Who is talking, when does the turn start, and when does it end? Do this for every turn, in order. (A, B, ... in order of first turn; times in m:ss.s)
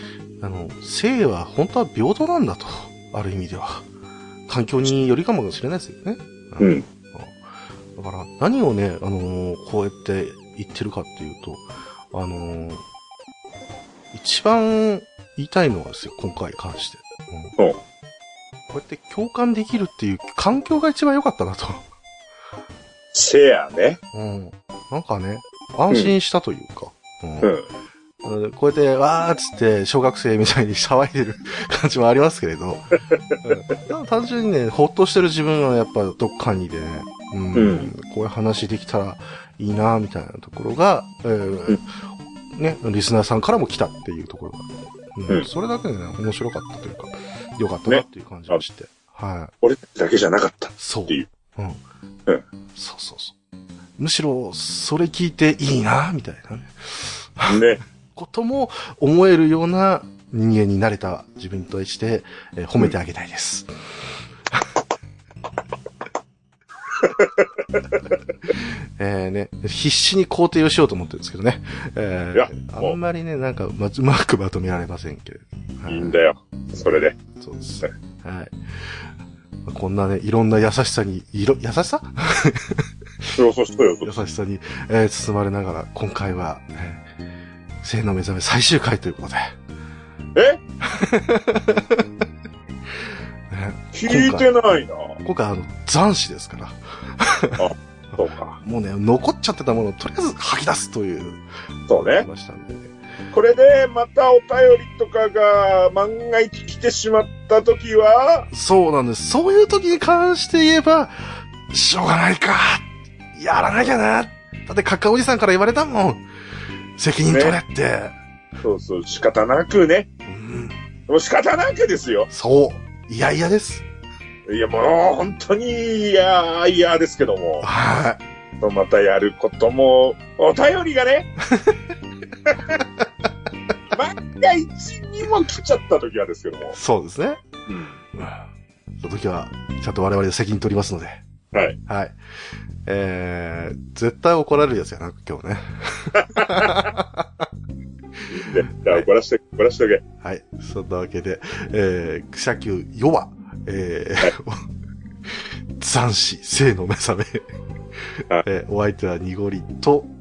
0:00.4-0:03.9 A
0:04.5-0:07.4 A
0:06.6-0:06.9 B
0:08.0-0:12.8 A
0:14.1-0:17.6 A
0:18.7-0:21.8 A
0:23.1-0:24.0 B
0:24.1-0:27.5 A
0:27.4-0:27.7 B
0:28.2-0:32.9 A
0:33.4-0:41.9 A
0:37.5-0:37.9 B
0:42.5-0:49.5 A
0:47.9-0:48.6 B
0:49.6-0:51.3 B
0:50.8-0:51.8 A
0:52.8-0:53.4 A
0:54.0-0:57.6 A
0:57.5-0:57.8 B
0:58.1-1:03.7 A
1:07.0-1:08.0 B
1:08.5-1:16.2 A
1:12.3-1:13.0 B
1:15.9-1:17.2 B
1:16.8-1:19.1 A
1:19.7-1:23.3 A
1:23.4-1:24.2 B
1:24.0-1:27.0 A
1:27.8-1:29.5 A
1:30.8-1:32.0 A
1:33.0-1:34.5 A
1:33.9-1:35.2 B
1:35.2-1:37.7 A
1:37.6-1:38.6 B
1:38.6-1:42.9 A
1:41.9-1:42.3 B
1:43.3-1:48.5 B
1:48.5-1:56.2 A
1:57.0-1:58.1 A
1:57.3-1:57.6 B
1:58.6-2:00.1 B
2:00.3-2:00.8 A
2:01.1-2:02.3 B
2:02.3-2:03.8 A
2:04.5-2:07.7 B
2:07.6-2:08.2 A
2:08.6-2:11.3 B
2:11.5-2:11.8 A
2:12.5-2:12.8 B
2:12.8-2:13.0 A
2:13.9-2:16.8 B
2:16.7-2:17.4 A
2:17.7-2:18.0 B
2:18.2-2:18.4 A
2:19.0-2:21.2 A
2:21.5-2:21.8 B
2:21.9-2:22.2 A
2:22.8-2:27.5 A
2:26.2-2:26.9 B
2:28.3-2:30.0 B
2:28.4-2:29.1 A
2:30.2-2:34.6 A
2:35.3-2:37.4 A
2:38.4-2:40.1 A